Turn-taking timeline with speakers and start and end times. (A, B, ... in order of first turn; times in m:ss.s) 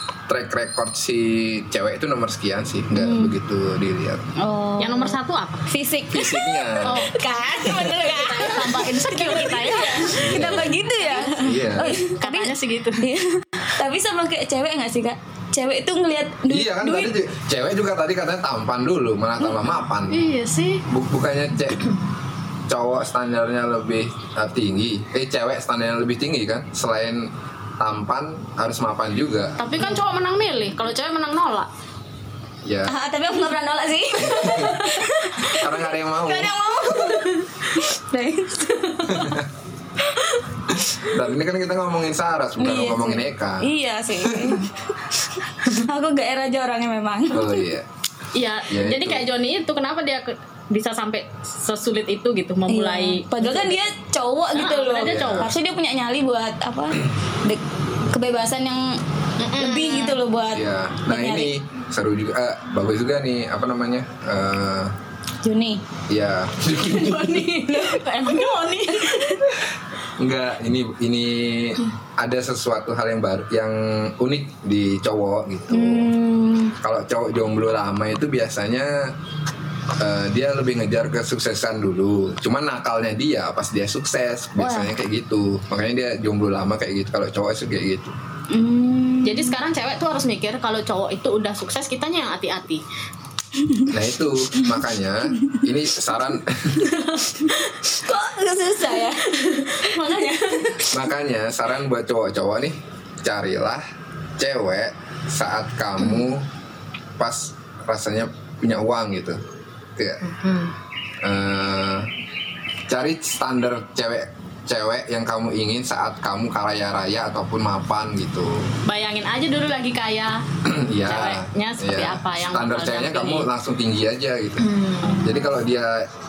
0:00.3-0:04.2 A
0:03.0-0:03.4 B
0:04.4-0:05.2 B
0:04.8-0:05.6 C
0:05.7-0:16.9 B
0:06.1-0:07.1 A
0:06.8-0:13.0 C
0:10.2-0:10.7 A
0:11.4-0:11.9 A
0:16.5-0:20.2 A
0:16.8-0:17.1 C
0:20.1-0:20.8 C
0:20.9-0:21.9 A
0:22.7-0:29.6 A
0:29.6-0:31.7 C
0:32.6-0:32.9 A
0:32.9-0:39.4 B
0:34.2-0:34.9 A
0:35.5-0:36.5 A
0:39.1-0:39.4 A
0:40.9-0:43.6 A
0:42.6-0:44.8 B
0:44.2-0:44.6 A
0:45.5-0:47.6 B
0:47.3-0:47.9 A
0:48.3-0:53.8 C
0:48.7-0:49.3 A
0:52.7-0:59.0 B
0:54.5-0:55.6 C
0:55.0-0:55.6 A
0:59.4-1:00.2 C
0:59.6-1:01.5 B
1:00.5-1:04.9 A
1:05.4-1:05.8 B
1:06.1-1:07.4 A
1:06.8-1:09.5 C
1:10.2-1:16.1 A
1:15.7-1:16.8 B
1:16.8-1:18.9 A
1:20.0-1:28.2 A
1:24.6-1:24.9 B
1:28.5-1:29.6 B
1:29.2-1:32.8 C
1:33.9-1:36.9 A
1:37.0-1:37.5 C
1:37.1-1:39.2 B
1:38.9-1:40.9 C
1:39.8-1:41.1 B
1:40.9-1:43.8 A
1:44.4-1:46.4 A
1:47.2-1:49.4 A
1:50.0-1:50.2 A
1:50.2-1:50.7 C
1:51.2-1:52.1 A
1:52.9-1:58.7 A
1:58.9-2:00.4 C
2:00.7-2:04.7 A
2:01.0-2:03.5 C
2:04.6-2:05.3 C
2:05.0-2:05.5 B
2:05.2-2:06.0 A